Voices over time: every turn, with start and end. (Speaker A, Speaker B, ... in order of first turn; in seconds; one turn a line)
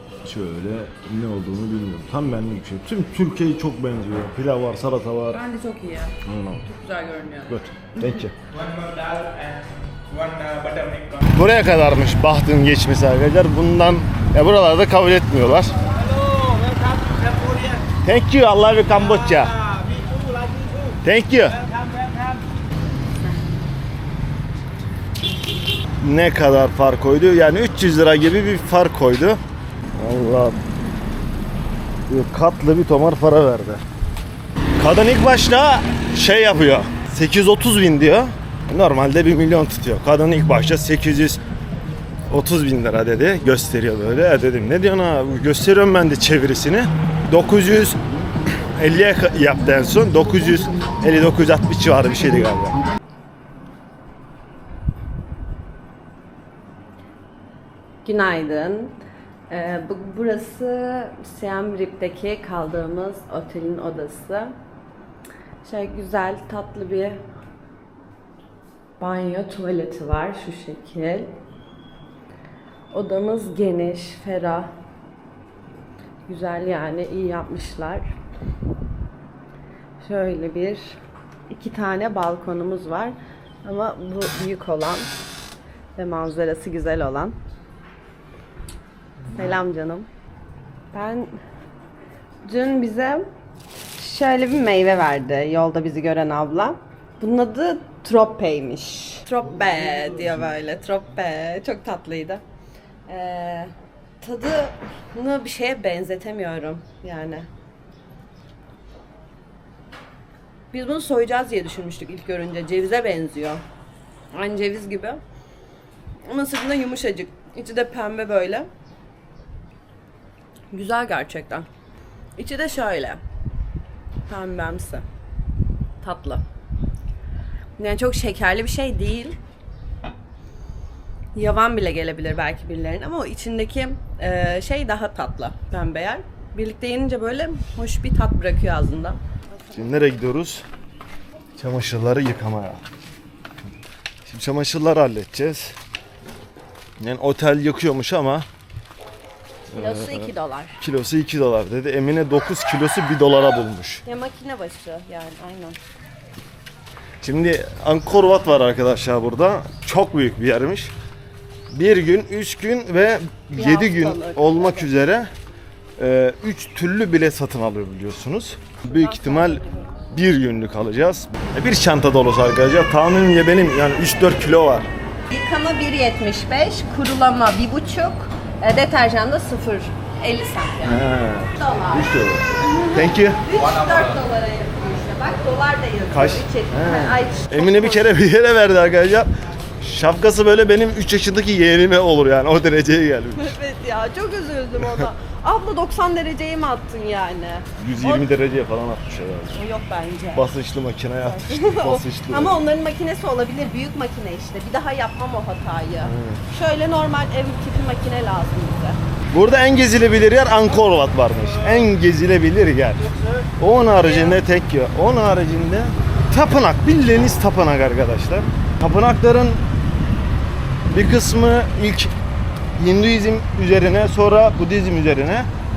Speaker A: 0.2-5.4
Speaker B: 5.3-8.2
Speaker A: 6.3-6.6
Speaker A: 7.5-8.3
Speaker C: 8.7-11.3
Speaker A: 11.3-15.8
Speaker C: 15.8-17.9
Speaker A: 18.0-19.5
Speaker C: 18.9-21.0
Speaker A: 21.0-21.6
Speaker C: 21.5-22.4
Speaker A: 26.0-29.4
Speaker A: 29.9-30.6
Speaker A: 32.1-33.8
Speaker A: 34.8-41.4
Speaker A: 42.3-48.0
Speaker A: 48.8-52.8
Speaker B: 58.0-64.5
Speaker B: 65.6-67.2
Speaker B: 69.0-71.3
Speaker B: 72.9-74.7
Speaker B: 76.3-78.1
Speaker B: 80.0-81.0
Speaker B: 81.5-85.1
Speaker B: 86.0-87.4
Speaker B: 89.3-90.1
Speaker B: 90.9-91.4
Speaker B: 92.4-93.3
Speaker B: 94.0-102.4
Speaker B: 103.1-107.5
Speaker B: 110.7-113.6
Speaker B: 114.3-115.2
Speaker B: 116.3-118.7
Speaker B: 120.7-121.7
Speaker B: 122.4-123.2
Speaker B: 124.3-125.0
Speaker B: 126.0-126.4
Speaker B: 127.8-129.4
Speaker B: 131.3-139.8
Speaker A: 139.7-140.7
Speaker A: 141.6-142.8
Speaker A: 144.3-145.8
Speaker A: 147.0-148.5
Speaker A: 149.7-154.0
Speaker B: 149.7-150.8
Speaker B: 154.1-155.8
Speaker A: 157.2-160.9
Speaker A: 161.7-165.3
Speaker B: 163.6-164.9
Speaker A: 166.0-174.9
Speaker B: 168.8-169.9
Speaker B: 175.3-188.1
Speaker A: 180.8-183.4
Speaker A: 186.1-193.6
Speaker B: 193.4-198.3
Speaker A: 194.8-195.1
Speaker A: 197.8-199.6
Speaker B: 199.5-200.5
Speaker A: 200.3-202.6
Speaker B: 201.2-209.0
Speaker A: 206.0-206.4
Speaker A: 209.3-219.7
Speaker B: 214.0-214.4
Speaker A: 220.9-222.1
Speaker A: 222.8-225.5